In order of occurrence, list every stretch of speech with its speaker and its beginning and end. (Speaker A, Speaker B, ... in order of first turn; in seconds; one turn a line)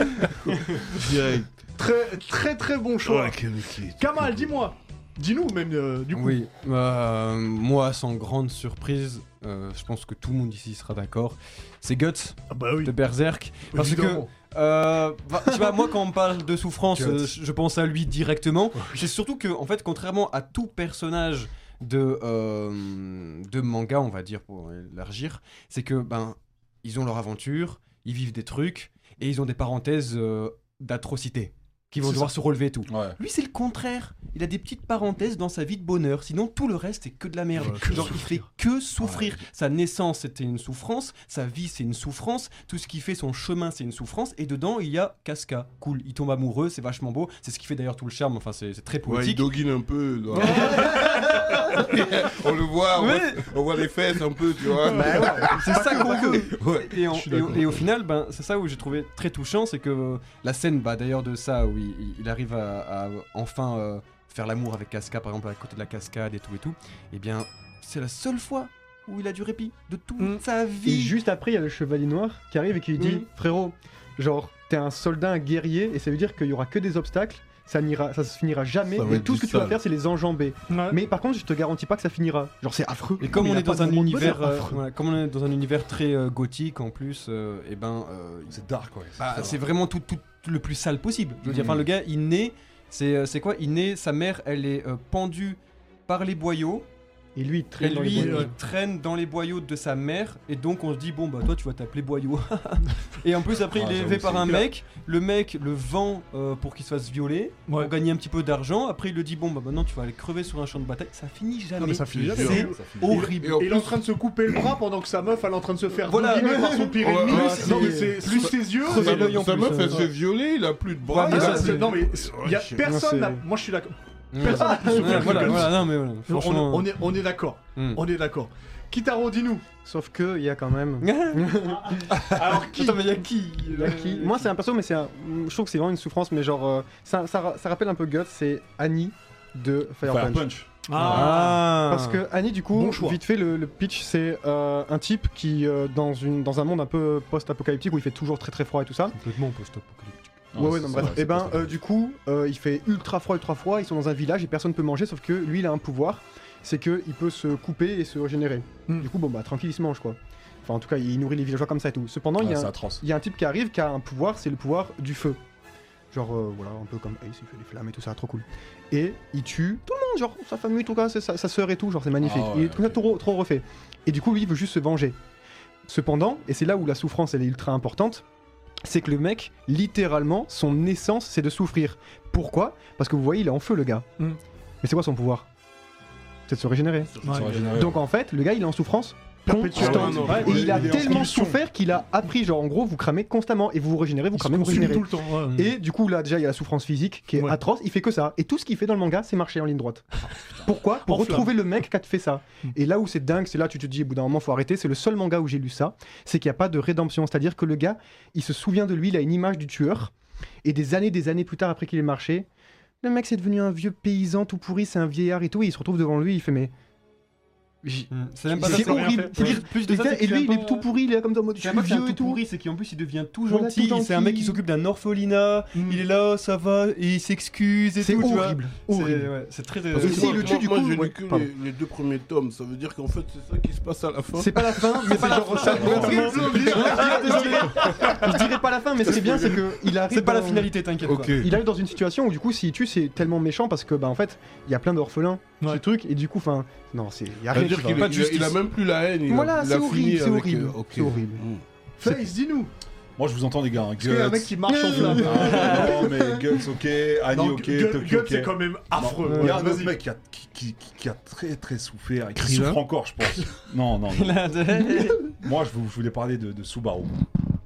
Speaker A: 0.9-1.5
Speaker B: 1.8-6.4
Speaker A: 3.0-4.7
Speaker C: 6.1-49.5
Speaker B: 12.5-12.9
Speaker B: 13.7-14.3
Speaker D: 16.9-17.3
Speaker B: 18.8-19.0
Speaker B: 32.0-32.3
Speaker D: 32.9-33.1
Speaker A: 37.5-38.2
Speaker B: 37.8-38.3
Speaker D: 39.0-39.4
Speaker A: 49.0-57.7
Speaker C: 50.3-52.0
Speaker C: 52.9-53.5
Speaker B: 54.9-55.4
Speaker C: 54.9-71.2
Speaker E: 54.9-56.4
Speaker E: 70.8-84.8
Speaker C: 73.0-73.2
Speaker A: 78.9-79.8
Speaker B: 80.7-81.0
Speaker C: 83.2-88.6
Speaker B: 84.2-84.5
Speaker D: 88.5-89.6
Speaker C: 89.2-96.9
Speaker D: 91.4-91.8
Speaker E: 97.3-98.5
Speaker C: 97.8-113.7
Speaker B: 98.1-98.5
Speaker D: 103.6-104.6
Speaker B: 107.7-107.9
Speaker B: 111.8-120.1
Speaker A: 112.2-112.7
Speaker D: 112.5-113.2
Speaker A: 113.2-113.9
Speaker C: 116.0-120.1
Speaker E: 116.5-116.8
Speaker A: 117.0-122.9
Speaker C: 121.1-121.9
Speaker B: 121.1-129.7
Speaker E: 122.8-123.4
Speaker C: 124.3-127.0
Speaker E: 124.7-125.2
Speaker A: 125.0-125.5
Speaker C: 127.8-128.0
Speaker E: 129.8-132.1
Speaker C: 131.0-131.6
Speaker B: 131.6-133.2
Speaker D: 132.2-132.4
Speaker C: 132.3-134.5
Speaker E: 133.7-149.2
Speaker D: 140.0-140.7
Speaker B: 140.8-141.6
Speaker C: 140.9-142.2
Speaker B: 142.7-143.2
Speaker C: 149.1-150.3
Speaker D: 150.5-151.8
Speaker E: 150.6-165.4
Speaker D: 162.4-163.0
Speaker E: 166.1-175.2
Speaker D: 172.2-173.1
Speaker E: 175.8-178.2
Speaker E: 178.8-184.1
Speaker E: 184.8-185.5
Speaker E: 186.5-210.1
Speaker A: 187.1-187.9
Speaker D: 187.2-188.0
Speaker B: 189.4-190.9
Speaker A: 189.7-191.1
Speaker D: 189.7-191.6
Speaker B: 194.3-195.6
Speaker B: 201.0-201.5
Speaker E: 210.6-212.5
Speaker E: 213.0-216.7
Speaker E: 217.8-222.4
Speaker C: 218.1-220.8
Speaker B: 218.5-219.6
Speaker C: 221.6-230.8
Speaker E: 223.5-224.6
Speaker B: 225.7-226.0
Speaker E: 228.0-229.3
Speaker A: 229.9-238.1
Speaker E: 229.9-231.5
Speaker E: 234.3-240.8
Speaker C: 235.1-237.9
Speaker D: 235.7-236.6
Speaker B: 236.2-238.3
Speaker C: 240.1-241.5
Speaker A: 241.0-241.5
Speaker E: 241.4-248.6
Speaker A: 247.5-251.6
Speaker E: 249.3-251.4
Speaker B: 252.0-252.7
Speaker D: 253.2-264.4
Speaker B: 254.0-256.0
Speaker E: 254.7-256.6
Speaker B: 257.3-260.0
Speaker E: 259.3-259.5
Speaker A: 262.3-262.8
Speaker C: 264.1-265.3
Speaker D: 265.2-267.2